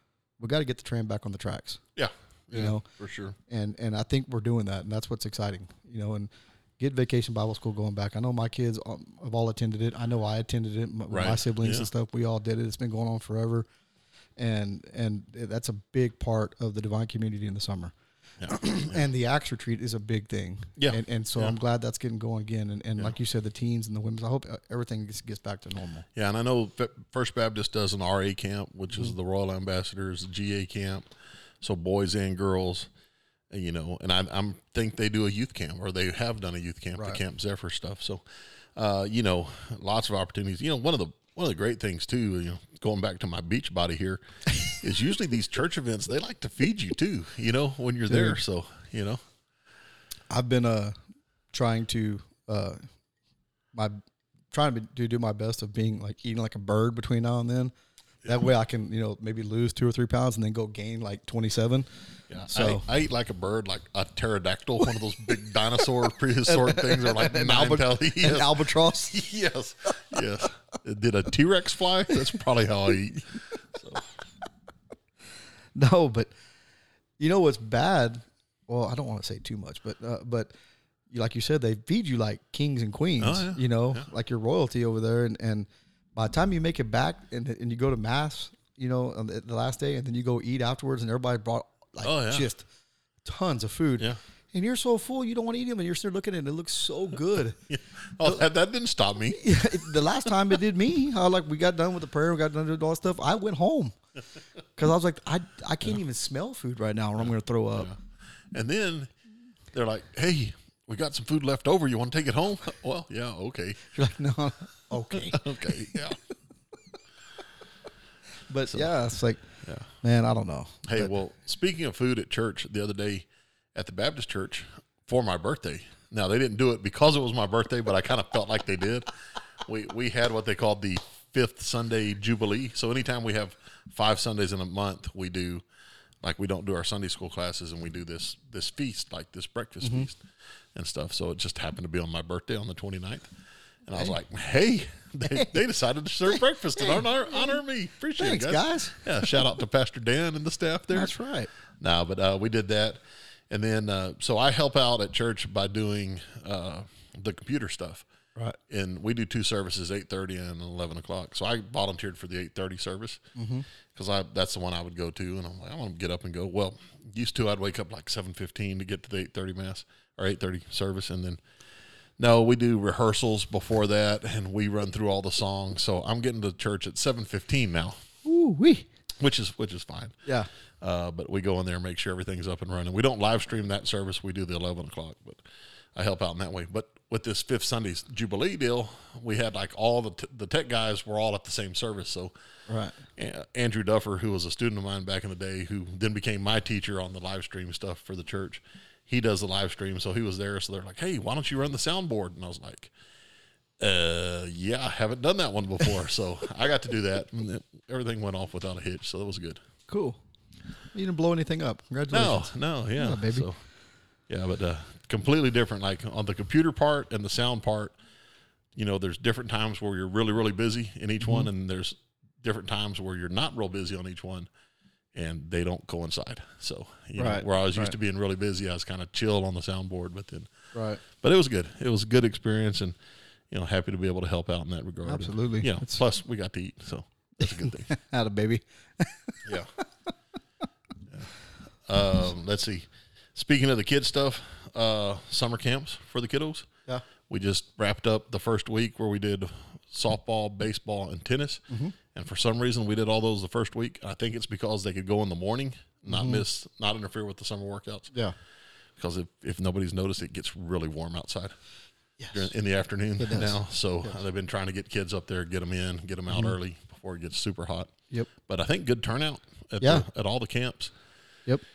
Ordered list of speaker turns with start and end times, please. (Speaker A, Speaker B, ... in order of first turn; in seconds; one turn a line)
Speaker A: 0.4-1.8
Speaker B: 1.9-3.4
Speaker A: 2.5-2.8
Speaker A: 3.5-13.7
Speaker B: 11.1-11.9
Speaker A: 14.4-17.9
Speaker B: 18.4-19.0
Speaker A: 18.4-26.1
Speaker B: 20.8-21.6
Speaker B: 26.1-31.1
Speaker B: 31.6-32.9
Speaker B: 33.5-38.2
Speaker B: 38.7-49.2
Speaker A: 48.1-48.4
Speaker A: 50.3-50.9
Speaker A: 51.5-52.8
Speaker A: 54.5-57.7
Speaker A: 58.2-61.9
Speaker B: 62.3-74.0
Speaker A: 62.5-62.8
Speaker A: 66.5-69.2
Speaker A: 75.7-76.3
Speaker A: 77.2-80.5
Speaker A: 81.1-92.6
Speaker B: 83.2-84.0
Speaker B: 92.0-92.5
Speaker A: 93.2-97.6
Speaker B: 97.7-99.6
Speaker A: 99.3-103.9
Speaker A: 104.8-107.9
Speaker B: 107.2-108.0
Speaker B: 108.5-109.1
Speaker B: 109.7-113.8
Speaker A: 113.9-115.9
Speaker B: 115.1-116.2
Speaker A: 118.5-119.4
Speaker B: 119.6-119.9
Speaker A: 120.0-121.1
Speaker B: 120.8-135.6
Speaker B: 136.2-140.2
Speaker A: 139.8-140.1
Speaker B: 140.7-143.3
Speaker B: 143.8-151.1
Speaker A: 145.3-145.5
Speaker A: 146.8-147.5
Speaker A: 148.2-149.5
Speaker A: 150.9-151.5
Speaker B: 151.8-158.0
Speaker B: 158.7-163.2
Speaker A: 163.3-163.7
Speaker B: 163.9-171.4
Speaker B: 172.2-178.0
Speaker A: 178.2-178.9
Speaker B: 179.2-180.2
Speaker B: 180.8-185.4
Speaker B: 185.9-192.3
Speaker A: 192.7-193.0
Speaker B: 193.2-202.9
Speaker B: 203.8-209.6
Speaker A: 209.9-210.2
Speaker A: 210.9-213.5
Speaker B: 212.1-213.6
Speaker B: 214.3-217.9
Speaker B: 218.7-224.5
Speaker A: 221.2-221.5
Speaker B: 225.1-230.5
Speaker A: 227.2-227.9
Speaker A: 230.7-231.0
Speaker B: 231.0-232.9
Speaker B: 233.5-237.9
Speaker A: 235.0-236.0
Speaker A: 237.5-239.5
Speaker B: 239.4-239.7
Speaker B: 241.8-246.7
Speaker B: 247.2-258.1
Speaker A: 251.7-251.9
Speaker A: 256.1-256.4
Speaker B: 259.0-261.5
Speaker A: 262.2-262.5
Speaker B: 262.3-267.9
Speaker A: 263.2-264.2
Speaker A: 266.3-266.5
Speaker B: 268.4-270.9
Speaker A: 269.8-270.1